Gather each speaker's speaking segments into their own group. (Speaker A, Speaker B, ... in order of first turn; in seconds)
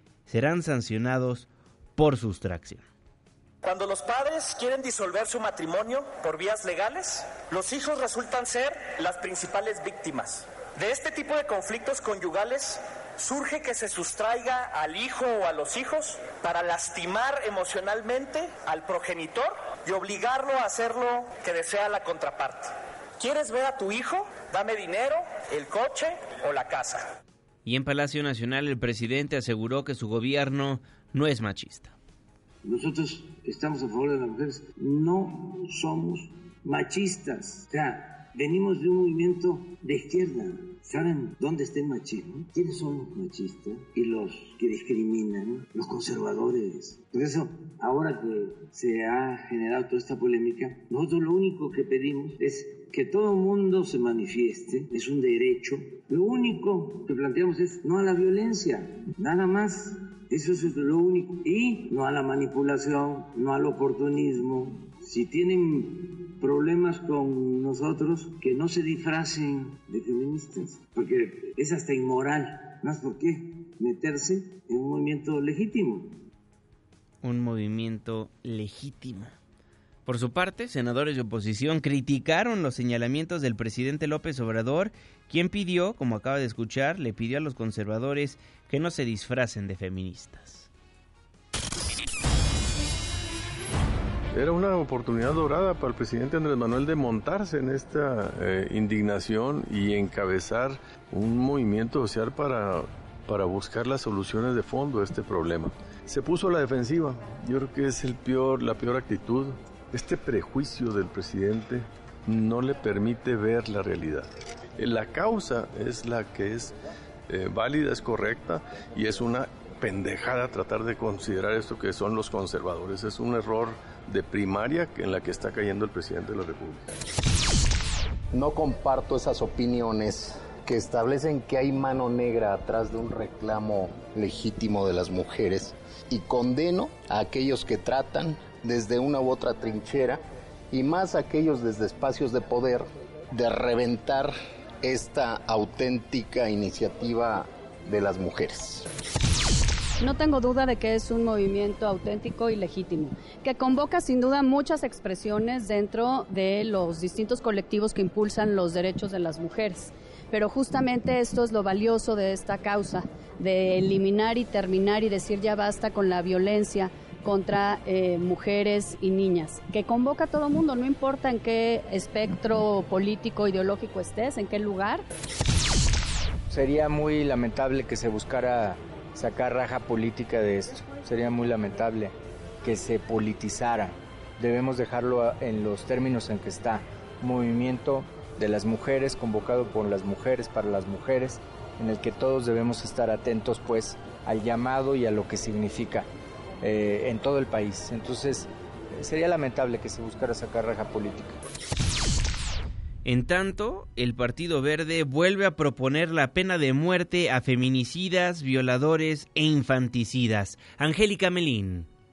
Speaker A: 0.3-2.8, 27.6-31.9, 77.2-79.3, 80.0-90.7, 203.0-211.9
Speaker B: 3.6-27.1
Speaker C: 32.6-76.2
Speaker D: 94.3-116.8, 117.3-126.8
Speaker E: 128.3-140.2, 140.7-148.9
Speaker F: 150.0-175.0
Speaker G: 176.5-196.1, 196.6-201.4